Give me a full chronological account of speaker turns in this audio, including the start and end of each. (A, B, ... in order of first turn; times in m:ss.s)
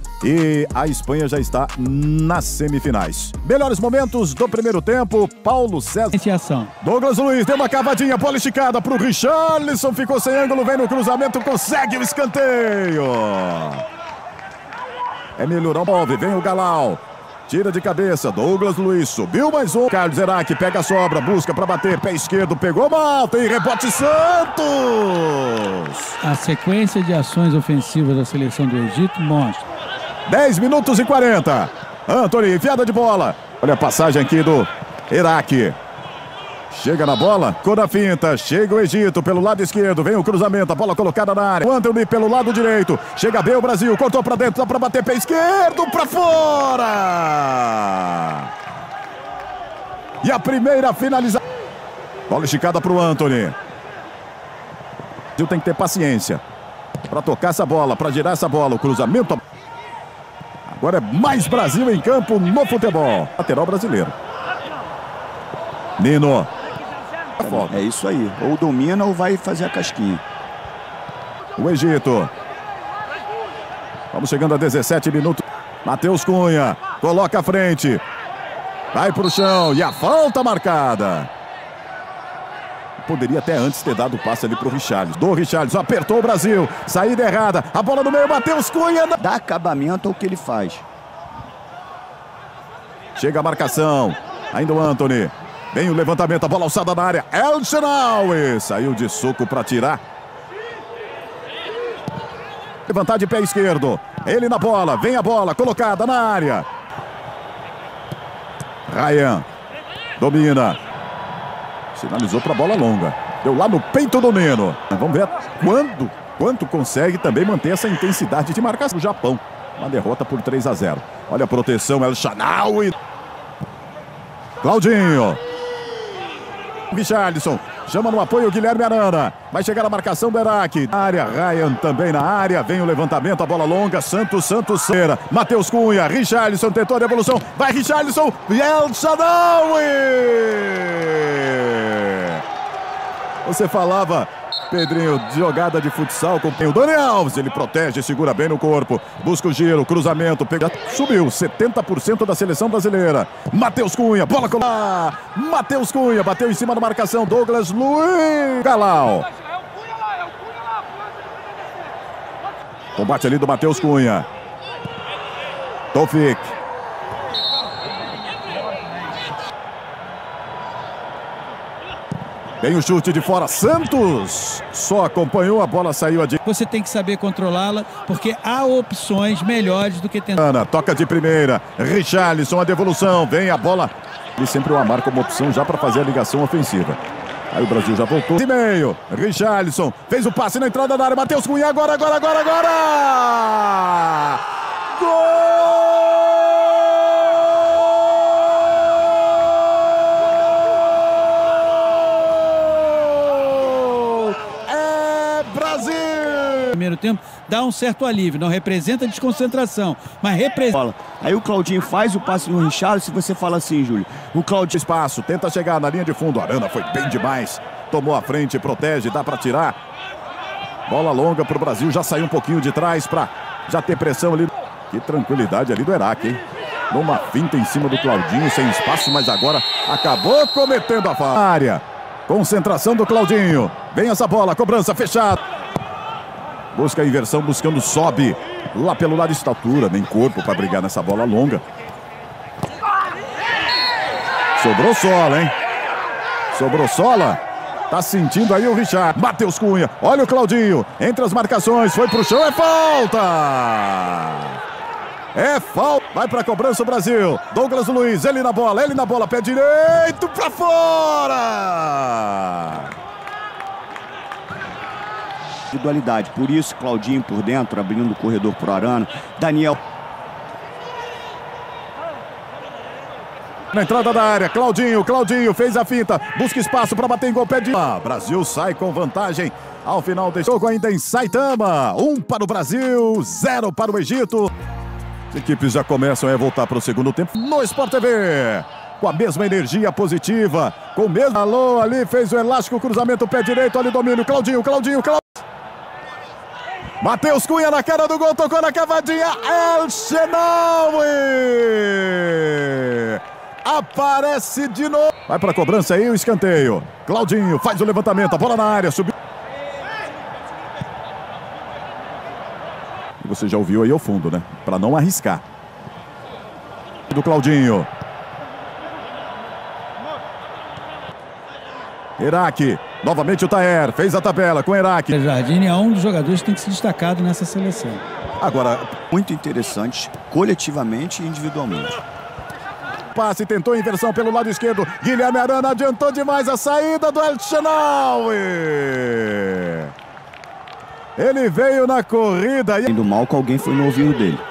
0:00.2-0:06.2 A
0:06.1-0:06.7 B
0:06.8-0:13.8 A
0:15.4-0:26.2 A
0:26.2-0:29.6 B
0:30.3-0:35.8 A
0:36.7-0:48.5 A
0:50.2-0:51.4 A
0:52.3-0:53.6 A
0:55.4-0:56.4 A
0:57.1-0:59.4 A
1:00.7-1:04.1 A
1:06.0-1:06.5 A
1:07.4-1:07.8 A
1:07.4-1:10.2 C
1:11.6-1:12.3 A
1:14.1-1:18.0 A
1:18.9-1:21.3 A
1:23.0-1:29.2 A
1:29.2-1:30.8 C
1:33.2-1:40.0 A
1:42.9-1:46.7 A
1:48.9-1:49.5 A
1:50.2-1:50.8 A
1:51.9-2:03.0 A
2:04.6-2:05.4 A
2:06.9-2:22.4 A
2:23.4-2:39.2 A
2:42.9-2:44.2 A
2:45.9-2:46.5 A
2:52.6-2:56.4 A
2:56.4-3:00.4 B
3:00.3-3:07.0 A
3:07.5-3:14.4 A
3:14.9-3:17.4 A
3:22.7-3:26.8 A
3:26.7-3:30.8 B
3:30.8-3:34.7 C
3:34.7-3:39.8 A
3:40.9-3:55.4 A
3:56.7-4:01.6 A
4:04.6-4:05.5 A
4:06.5-4:07.4 A
4:07.9-4:14.6 A
4:15.3-4:22.9 A
4:25.7-4:29.8 C
4:33.7-4:44.5 A
4:45.3-4:55.4 A
4:57.0-5:09.1 A
5:13.2-5:15.4 A
5:17.1-5:17.9 A
5:22.2-5:25.1 A
5:25.1-5:28.0 B
5:28.4-5:29.0 A
5:29.1-5:31.9 C
5:33.1-5:39.9 A
5:41.2-5:42.9 A
5:42.9-5:44.4 C